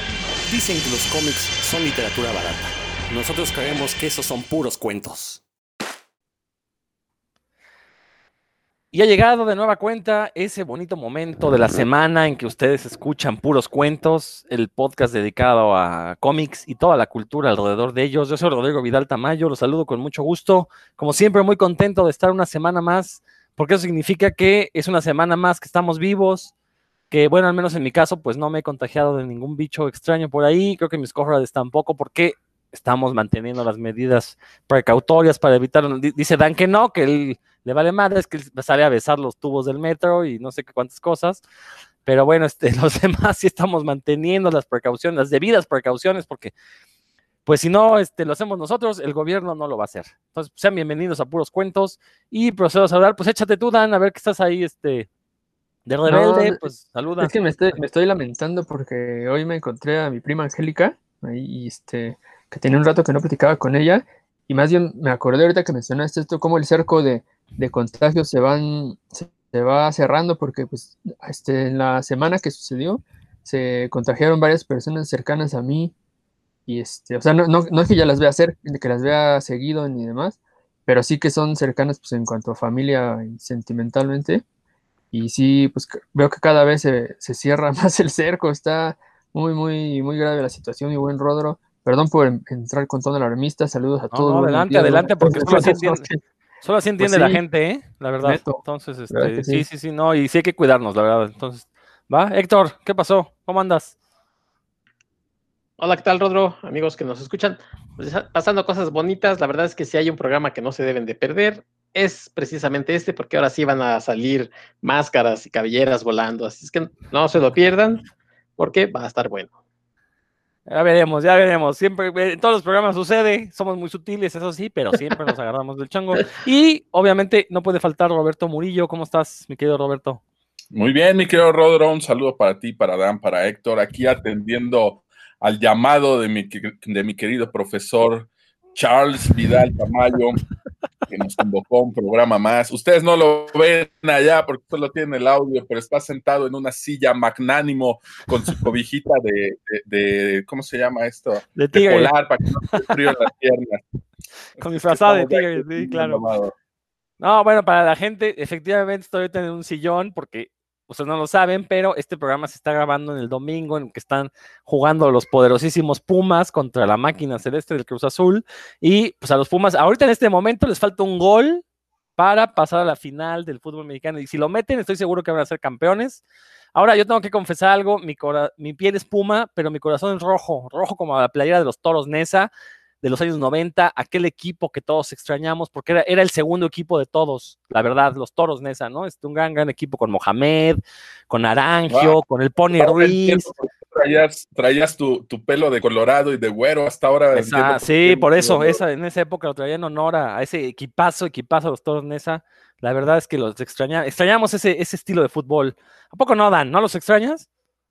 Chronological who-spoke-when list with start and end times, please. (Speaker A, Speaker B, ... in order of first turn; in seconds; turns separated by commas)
Speaker A: 0.4-5.4, Speaker B: 8.9-26.5, Speaker B: 27.1-41.4, Speaker B: 42.0-46.5, Speaker B: 47.5-55.1, Speaker B: 55.9-57.3, Speaker C: 56.0-56.6, Speaker C: 57.2-75.9, Speaker C: 76.7-84.4, Speaker C: 85.1-96.2, Speaker B: 94.1-96.1, Speaker B: 96.6-104.0, Speaker C: 97.0-97.4, Speaker C: 98.2-99.6, Speaker D: 105.8-118.0, Speaker D: 118.6-119.5, Speaker B: 120.7-130.2, Speaker E: 130.7-140.4, Speaker E: 141.1-153.8, Speaker B: 151.5-152.1, Speaker B: 154.6-156.2, Speaker E: 154.9-156.5, Speaker B: 157.2-171.6, Speaker B: 172.2-176.2, Speaker B: 176.7-182.5, Speaker B: 183.0-193.5, Speaker E: 191.9-192.2, Speaker E: 192.7-198.8, Speaker B: 197.3-207.5